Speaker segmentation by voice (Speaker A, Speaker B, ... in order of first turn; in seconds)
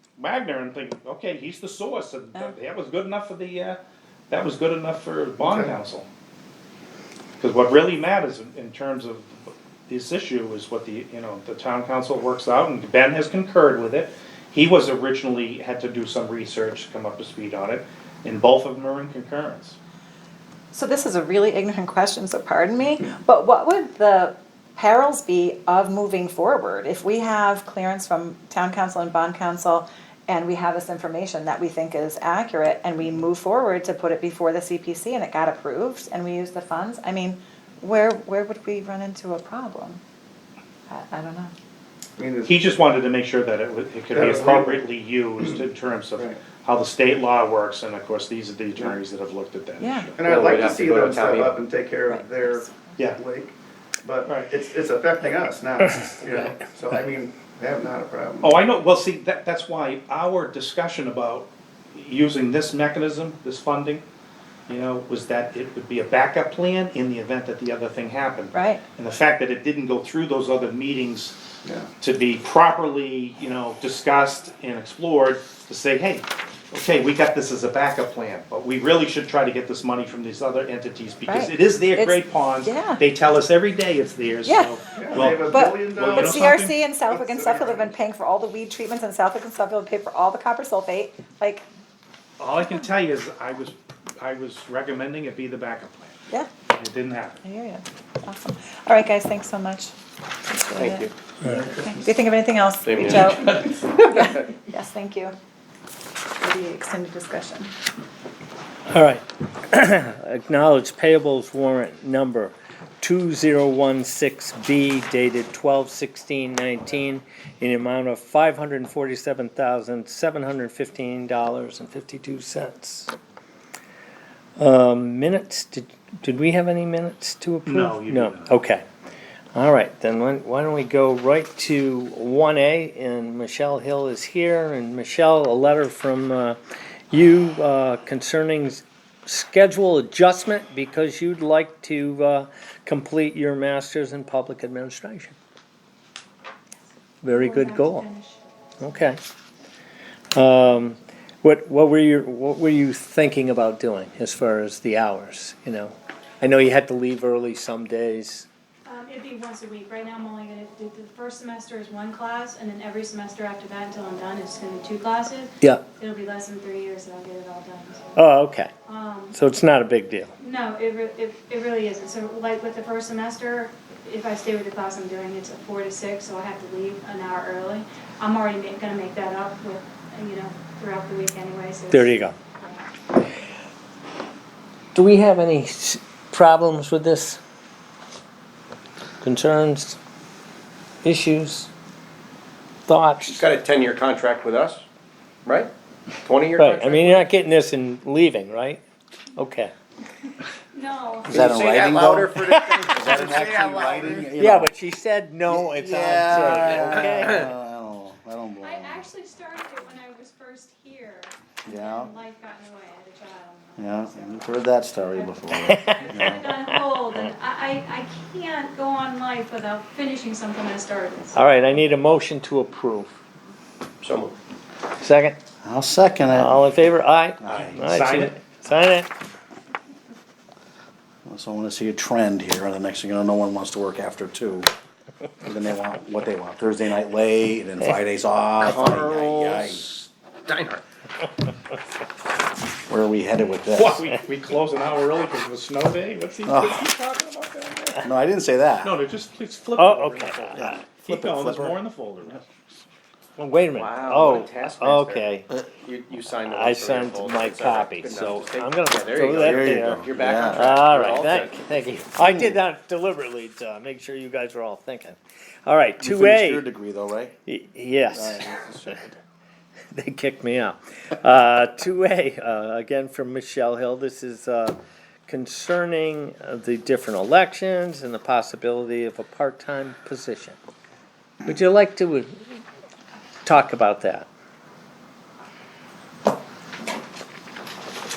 Speaker A: 0.2-3.8, 4.3-6.1, 7.4-19.8, 42.5-50.3, 58.4-64.0, 64.7-71.4, 72.0-86.8, 92.4-96.2, 96.7-97.4, 127.7-128.6, 227.8-228.4, 243.8-248.0, 248.8-252.6
Speaker B: 5.4-5.7, 42.2-42.6, 44.1-44.9, 50.2-58.6, 71.6-71.9, 85.0-86.4, 87.1-87.9
Speaker C: 20.7-40.0, 40.9-41.5, 49.8-50.1, 52.0-53.1, 68.5-68.8, 81.3-83.0, 84.5-84.8, 85.3-91.7, 97.4-99.9, 100.5-105.3, 106.4-107.7
Speaker D: 50.3-51.6, 100.8-101.1, 102.8-104.5, 193.3-194.8, 195.4-197.3, 201.3-204.1, 206.7-207.3, 224.0-224.4, 238.6-240.8, 253.8-254.8, 255.5-261.6
Speaker E: 101.4-101.7, 108.9-123.1, 124.6-128.8, 129.5-136.6, 137.1-145.3, 147.2-148.1, 148.8-149.2, 150.3-158.5, 168.2-168.7, 169.3-170.3, 181.9-182.4, 184.9-187.4, 189.2-190.0, 191.0-191.7, 192.9-193.4, 196.6-198.8, 199.4-199.7, 202.5-203.2, 204.3-207.5, 215.6-217.2, 221.3-223.2, 225.0-225.4, 226.3-229.1, 249.8-250.8, 253.4-255.5, 256.5-266.7, 267.5-269.0, 269.9-274.8, 275.3-280.6, 281.5-282.3, 283.4-284.3
Speaker F: 147.3-148.6, 158.9-168.3, 168.9-169.4, 170.4-182.8, 200.7-201.5, 208.6-221.4
Speaker G: 201.2-204.7, 205.5-209.1, 211.7-212.1, 213.8-216.5, 225.6-226.6, 227.4-227.8, 231.2-234.7, 235.4-239.9, 242.9-244.0, 246.5-246.9, 248.0-249.0, 250.6-251.8, 259.2-260.7, 262.2-262.6, 266.0-267.4, 268.1-269.1